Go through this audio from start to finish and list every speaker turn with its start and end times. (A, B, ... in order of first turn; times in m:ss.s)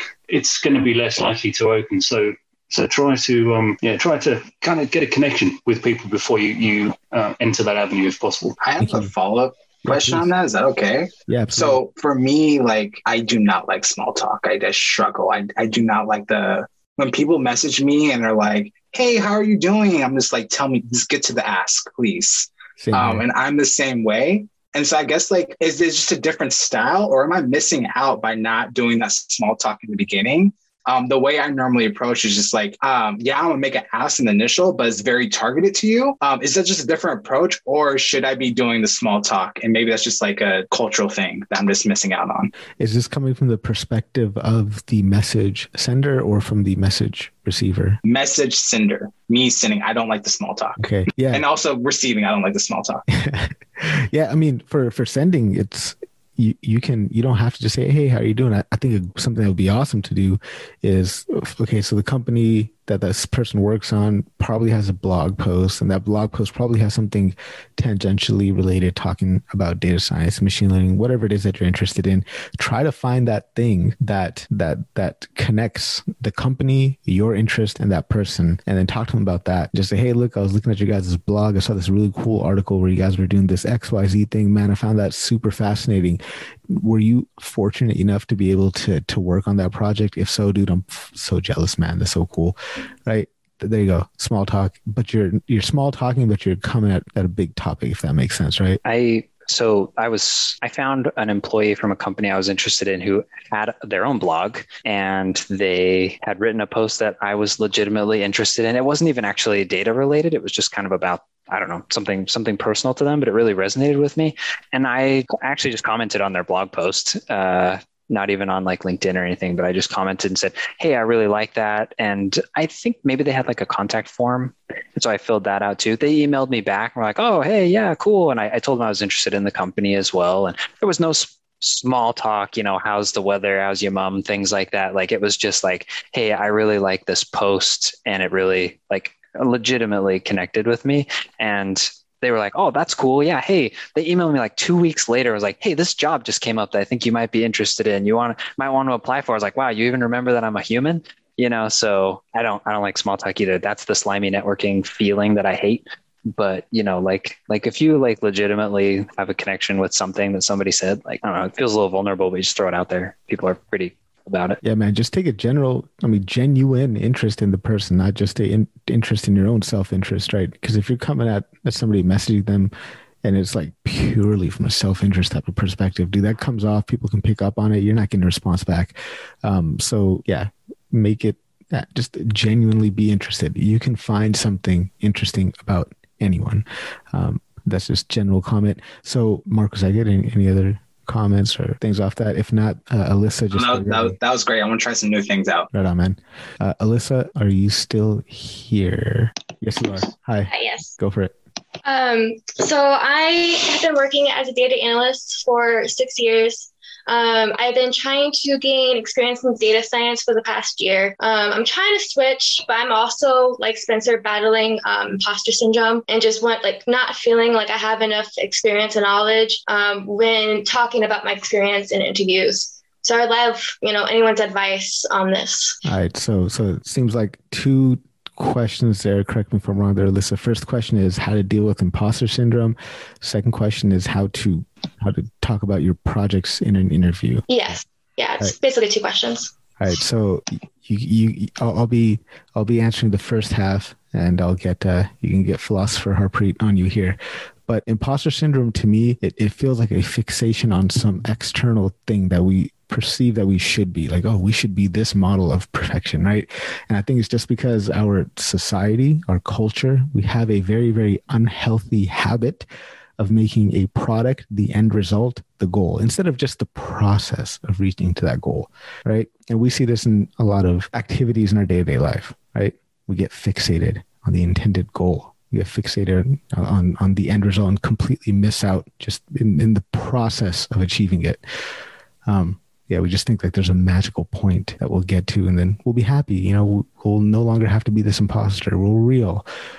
0:00.3-0:08.6 A
0:08.6-0:42.5 B
0:08.8-0:09.1 C
0:09.8-0:10.3 C
0:11.3-0:11.8 C
0:22.8-0:23.2 C
0:42.8-0:48.0 C
0:48.0-0:53.0 B
0:50.8-0:51.4 C
0:53.1-1:38.8 C
1:38.8-2:44.6 D
2:44.6-2:52.7 C
2:53.2-3:14.2 C
3:13.5-3:15.7 B
3:15.7-3:21.3 C
3:20.5-3:20.9 E
3:21.8-3:45.8 E
3:45.8-3:57.8 C
3:57.5-3:59.5 E
3:59.8-4:22.6 C
4:23.2-4:41.4 C
4:42.2-4:49.4 C